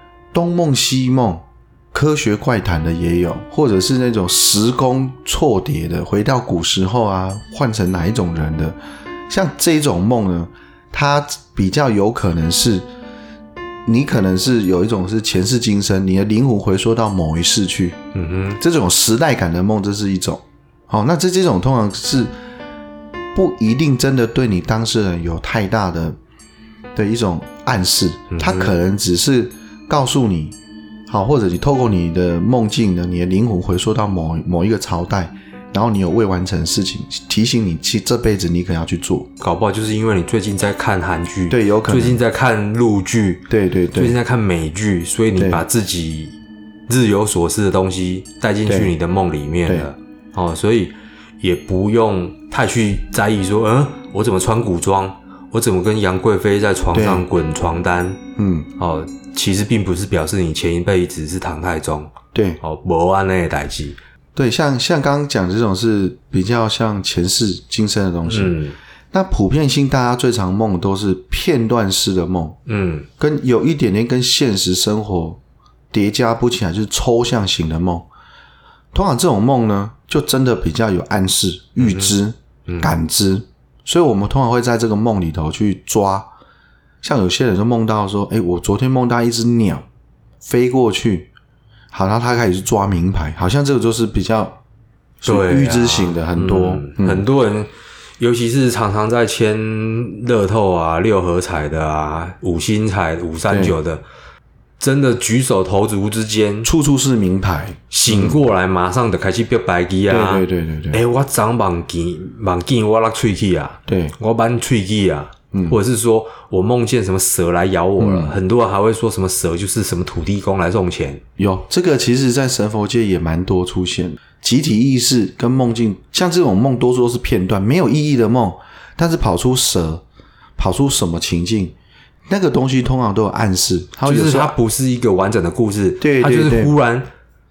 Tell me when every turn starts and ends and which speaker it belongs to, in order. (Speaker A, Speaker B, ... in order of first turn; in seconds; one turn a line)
Speaker A: 0.3-8.8
Speaker A: 9.3-12.8
Speaker A: 13.8-18.0
Speaker B: 18.1-18.6
Speaker A: 18.6-22.3
Speaker A: 23.3-26.2
Speaker A: 26.9-30.6
Speaker B: 28.3-28.8
Speaker A: 31.1-39.3
Speaker B: 39.4-46.4
Speaker A: 41.5-42.2
Speaker A: 43.5-44.1
Speaker A: 45.3-45.6
Speaker B: 46.9-58.2
Speaker A: 48.6-48.9
Speaker A: 49.6-49.9
Speaker A: 56.9-57.2
Speaker A: 58.4-58.7
Speaker B: 58.8-64.0
Speaker A: 62.3-62.6
Speaker A: 64.3-68.6
Speaker B: 68.3-68.8
Speaker A: 69.1-72.6
Speaker B: 72.7-73.1
Speaker A: 73.2-75.4
Speaker A: 75.9-78.1
Speaker A: 78.9-86.3
Speaker B: 81.8-82.9
Speaker A: 87.0-89.8
Speaker A: 90.4-91.3
Speaker A: 91.9-94.6
Speaker A: 95.2-97.2
Speaker B: 95.2-104.0
Speaker A: 103.5-103.8
Speaker B: 104.8-106.7
Speaker A: 106.6-108.4
Speaker B: 107.9-121.2
Speaker A: 110.1-111.0
Speaker A: 113.9-114.1
Speaker A: 115.5-115.8
Speaker A: 118.0-118.4
Speaker A: 121.4-130.0
Speaker A: 130.6-131.7
Speaker A: 132.3-134.6
Speaker B: 134.0-137.1
Speaker A: 136.0-136.8